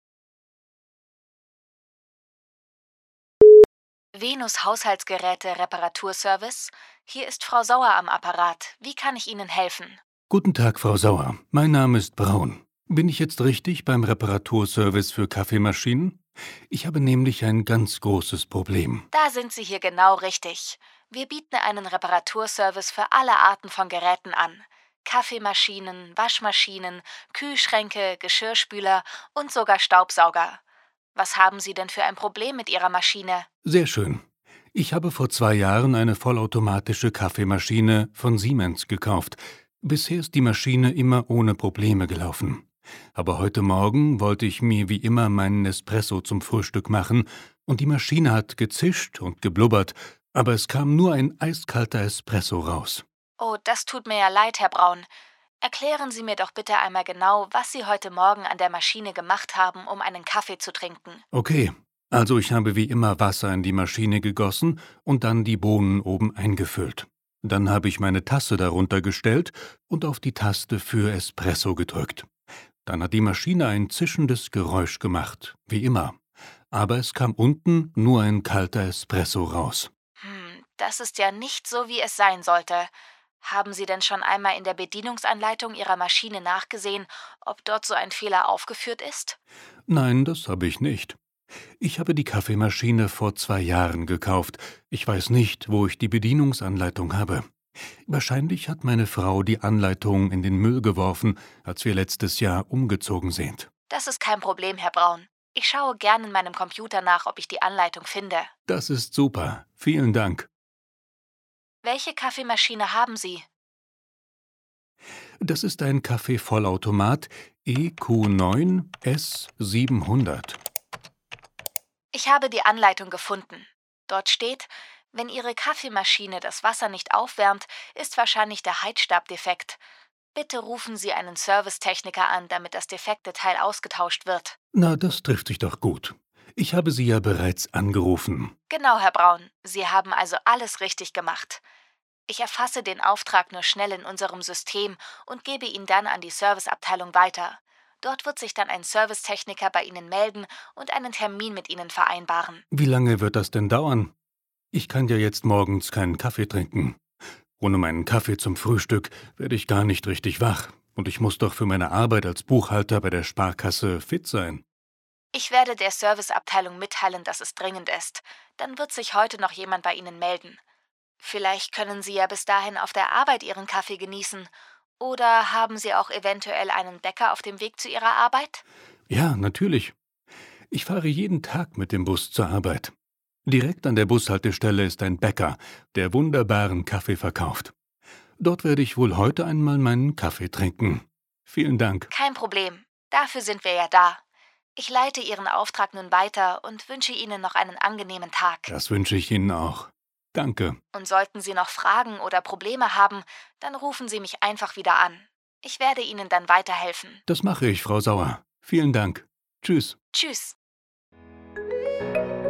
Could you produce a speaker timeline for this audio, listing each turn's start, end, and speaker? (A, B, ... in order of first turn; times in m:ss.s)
0:04.1-0:10.0 A
0:10.3-0:19.0 B
0:19.1-0:30.6 A
0:31.1-0:33.5 A
0:33.6-0:53.0 B
0:53.4-0:55.1 A
0:55.6-1:01.2 A
1:01.3-1:12.3 B
1:12.8-1:16.2 B
1:16.7-1:19.9 B
1:20.2-1:29.4 A
1:29.9-1:31.2 B
1:31.8-1:37.4 B
1:38.1-1:43.7 B
1:43.9-1:48.5 A
1:48.7-1:50.5 B
1:51.8-1:53.5 A
1:55.4-2:00.6 B
2:02.1-2:09.8 A
2:10.3-2:14.6 A
2:14.7-2:18.5 B
2:18.7-2:21.6 A
2:22.3-2:32.6 A
2:32.7-2:34.1 B
2:34.7-2:37.0 B
2:37.6-2:44.6 B
2:45.3-2:50.6 A
2:51.2-2:58.6 A
2:59.1-2:59.9 B
3:00.7-3:02.9 B
3:03.4-3:07.7 B
3:08.4-3:12.1 B
3:12.1-3:14.2 A
3:14.8-3:18.7 A
3:18.7-3:20.8 B
3:20.9-3:27.2 A
3:27.3-3:30.0 B
3:30.1-3:30.6 A